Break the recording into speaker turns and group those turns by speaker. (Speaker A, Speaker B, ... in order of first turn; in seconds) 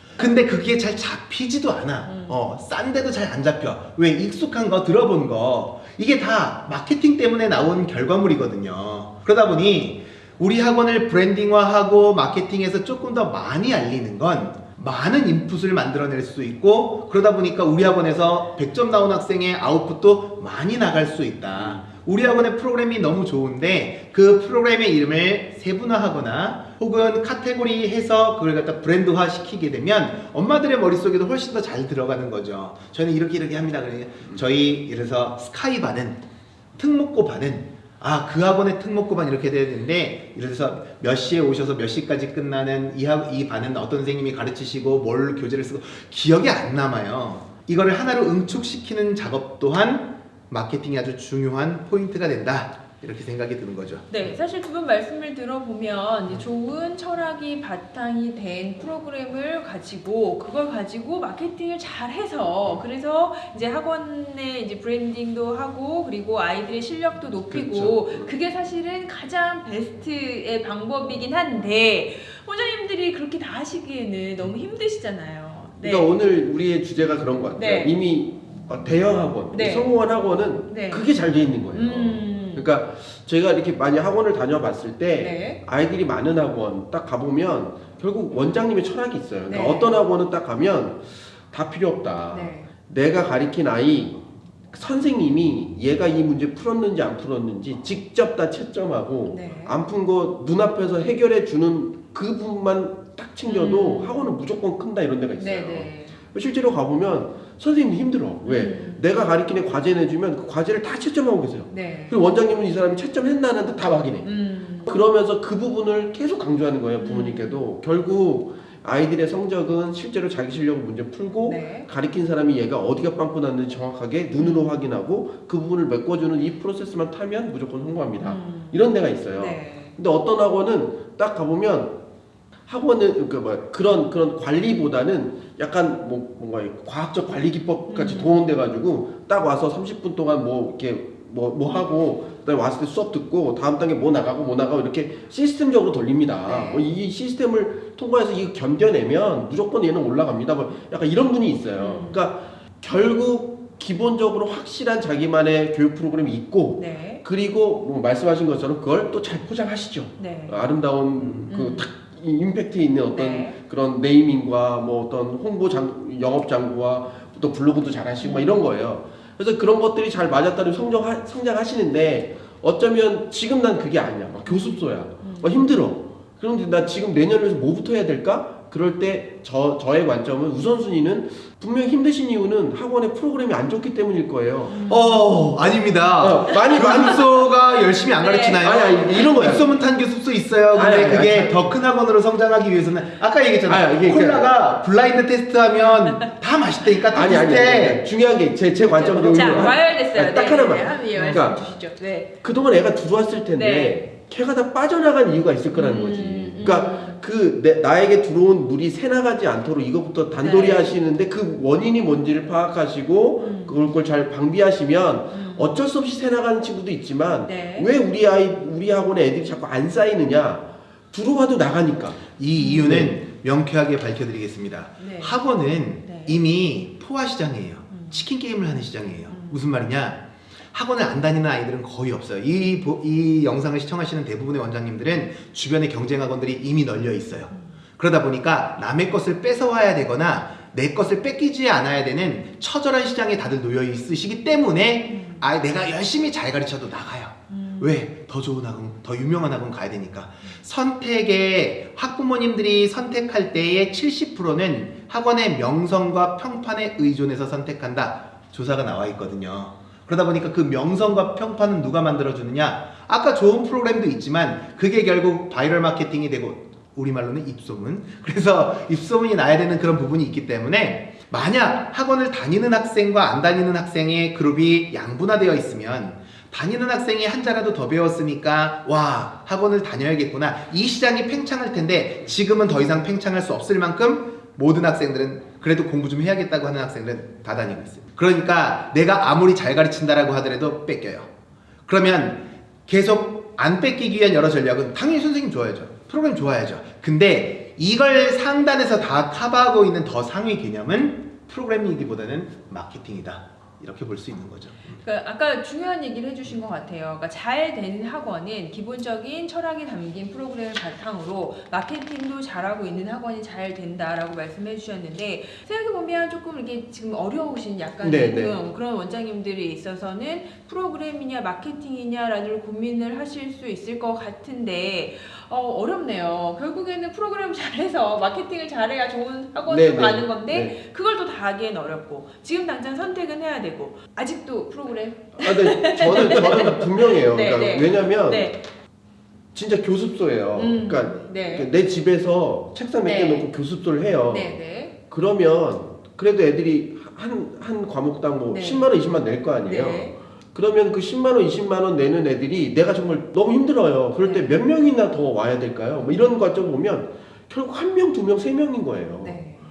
Speaker A: 0.2-36.2, 36.8-54.2, 184.9-198.1, 201.2-201.4, 222.4-291.3, 291.9-305.0
Speaker B: 0.2-0.5, 2.0-2.4, 54.1-76.1, 77.6-78.0, 79.5-80.0, 80.7-81.1, 81.7-82.7, 85.1-85.6, 89.5-89.9, 92.3-92.7, 99.3-99.8, 103.5-104.3, 105.4-106.2, 108.4-109.0, 111.7-112.2, 114.2-115.0, 117.0-117.6, 121.4-121.9, 124.4-124.8, 128.2-129.9, 137.9-138.4, 146.5-146.9, 151.7-152.2, 156.8-157.2, 160.2-160.6, 161.5-161.9, 163.1-163.6, 168.2-168.6, 174.4-175.7, 184.7-185.7, 186.5-188.8, 196.0-196.3, 198.8-202.3, 203.5-204.0, 205.7-207.2, 210.4-210.9, 213.4-213.8, 215.3-215.8, 217.4-217.9, 222.6-222.9, 225.0-226.4, 227.9-228.2, 229.2-229.6, 245.1-245.5, 247.5-248.0, 305.0-338.6, 340.6-341.7, 343.0-343.5, 344.2-344.9, 348.5-348.9, 349.6-350.1, 354.2-354.6, 359.2-359.6
Speaker C: 67.5-68.3, 75.8-114.3, 114.9-132.0, 132.7-184.8, 186.2-187.2, 188.6-189.7, 190.7-191.7, 193.7-194.5, 197.1-201.6, 202.4-223.2, 318.0-318.6, 329.7-330.8, 335.4-338.5, 339.5-344.6, 345.1-359.4